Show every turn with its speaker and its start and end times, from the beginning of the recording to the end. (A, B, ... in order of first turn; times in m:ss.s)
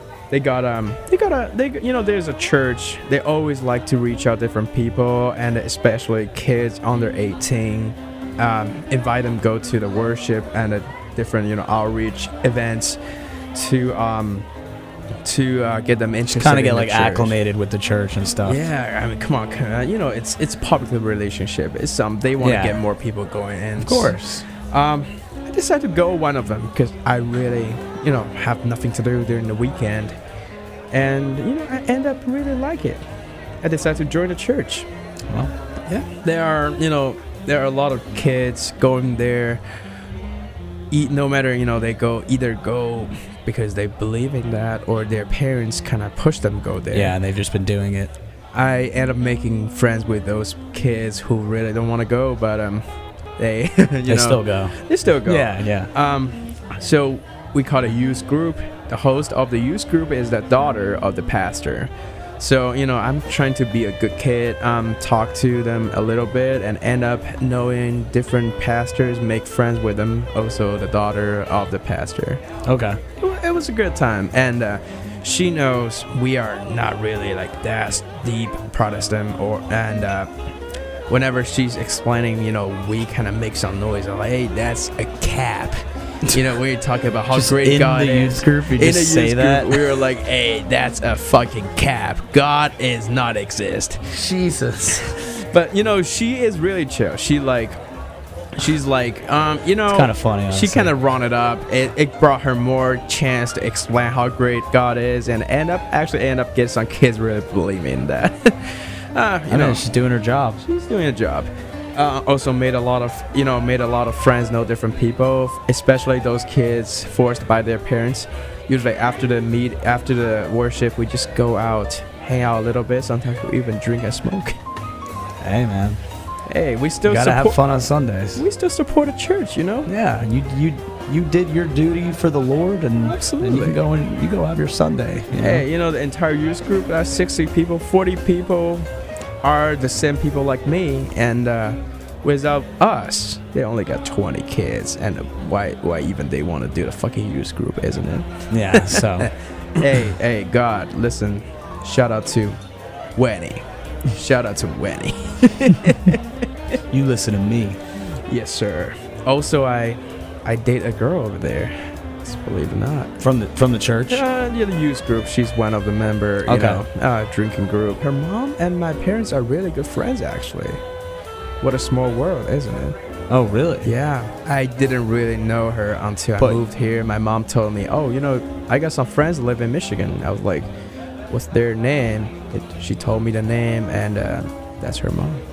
0:00.3-0:13.0 A
0:13.5-0:14.5 A
0:15.2-0:17.4 A
0:16.3-0:18.6 B
0:18.4-0:30.2 A
0:22.4-0:22.8 B
0:23.8-0:24.5 B
0:30.9-0:33.0 A
0:33.6-0:34.9 A
0:35.9-0:39.6 A
0:40.9-0:47.2 A
0:46.9-0:48.1 B
0:48.5-0:52.9 A
0:53.4-1:12.4 A
0:54.1-0:55.9 B
1:12.7-1:13.0 B
1:13.2-1:20.3 A
1:21.1-1:34.2 A
1:27.3-1:30.0 B
1:34.1-1:35.2 B
1:35.0-1:37.8 A
1:38.5-1:49.8 A
1:39.9-1:40.9 B
1:49.5-1:50.6 B
1:50.6-2:04.6 A
2:05.4-2:06.0 B
2:06.5-2:07.6 A
2:07.1-2:08.4 B
2:08.4-2:09.9 A
2:09.9-2:15.6 B
2:13.0-2:13.8 A
2:15.3-2:18.9 A
2:19.4-2:32.6 A
2:28.5-2:29.3 B
2:33.2-2:36.3 A
2:36.9-2:37.8 B
2:38.3-2:43.2 A
2:43.2-2:44.2 B
2:44.1-2:50.8 A
2:46.5-2:46.8 B
2:51.6-2:53.0 A
2:53.3-2:53.9 B
2:53.8-3:00.7 A
3:01.3-3:05.4 A